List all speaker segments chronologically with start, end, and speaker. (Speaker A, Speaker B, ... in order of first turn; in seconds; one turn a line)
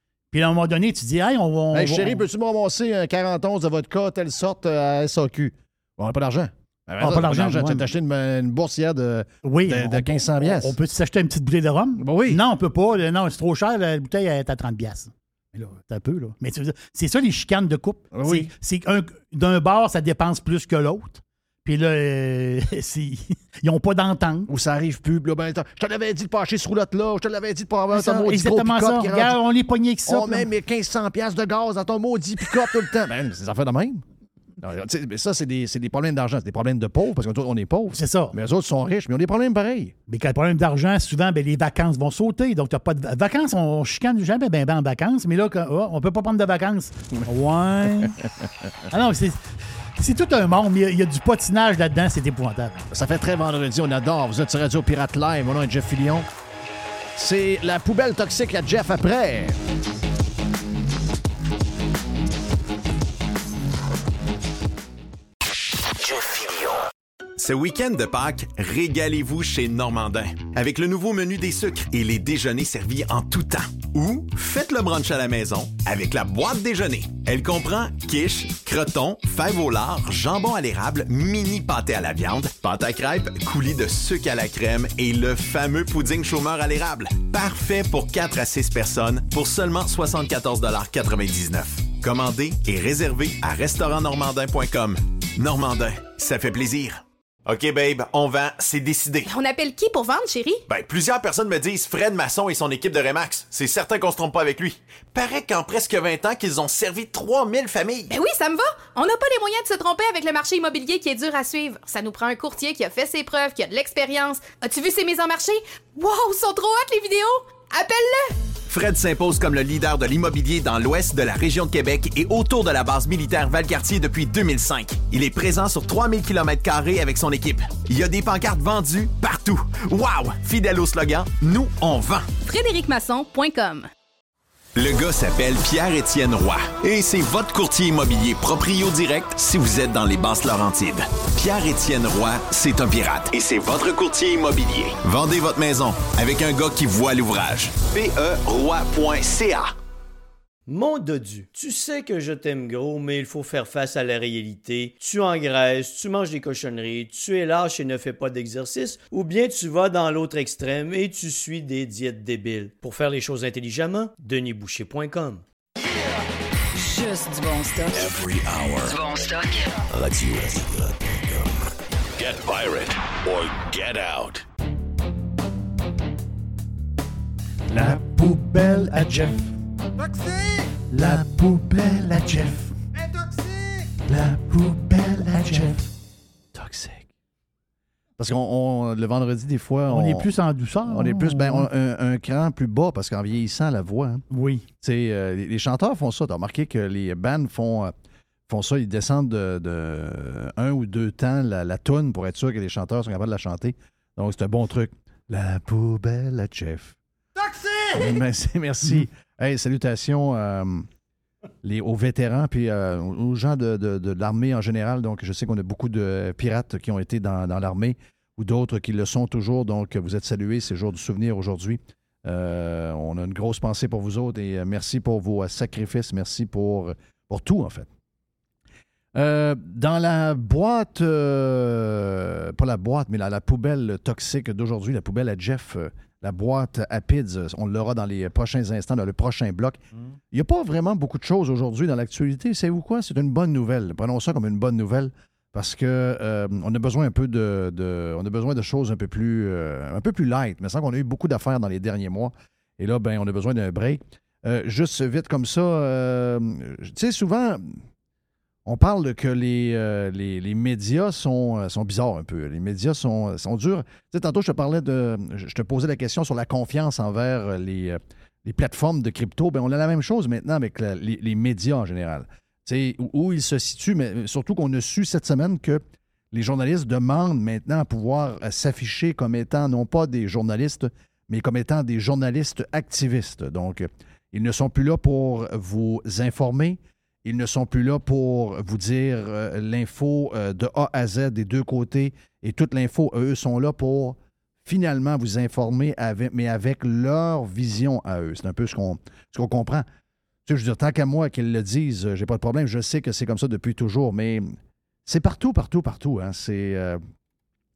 Speaker A: 0.3-2.2
Speaker B: 1.7-10.8
Speaker A: 7.0-7.9
Speaker A: 9.4-24.5
Speaker B: 12.0-12.4
Speaker B: 18.1-18.5
Speaker B: 24.5-29.4
Speaker A: 27.9-30.5
Speaker B: 30.1-34.0
Speaker B: 34.6-40.0
Speaker A: 37.9-38.4
Speaker A: 40.1-48.2
Speaker A: 48.9-52.9
Speaker B: 52.9-56.3
Speaker B: 57.1-59.6
Speaker C: 67.4-99.3
Speaker D: 99.3-100.6
Speaker C: 100.7-108.1
Speaker D: 108.1-118.3
Speaker C: 118.7-132.3
Speaker D: 132.4-133.9
Speaker C: 134.8-149.7
Speaker E: 150.7-165.4
Speaker F: 166.8-168.1
Speaker G: 167.9-169.1
Speaker F: 168.9-169.7
Speaker G: 169.9-174.4
Speaker B: 177.7-179.6
Speaker B: 180.9-182.7
Speaker B: 184.1-185.9
Speaker B: 186.5-187.1
Speaker B: 188.2-190.3
Speaker A: 189.9-191.7
Speaker B: 190.9-194.2
Speaker A: 194.3-194.7
Speaker B: 194.8-197.9
Speaker B: 198.5-207.0
Speaker B: 207.9-210.9
Speaker B: 211.6-227.9
Speaker B: 229.1-239.8
Speaker B: 240.3-257.8
Speaker B: 258.7-299.9
Speaker B: 300.5-307.0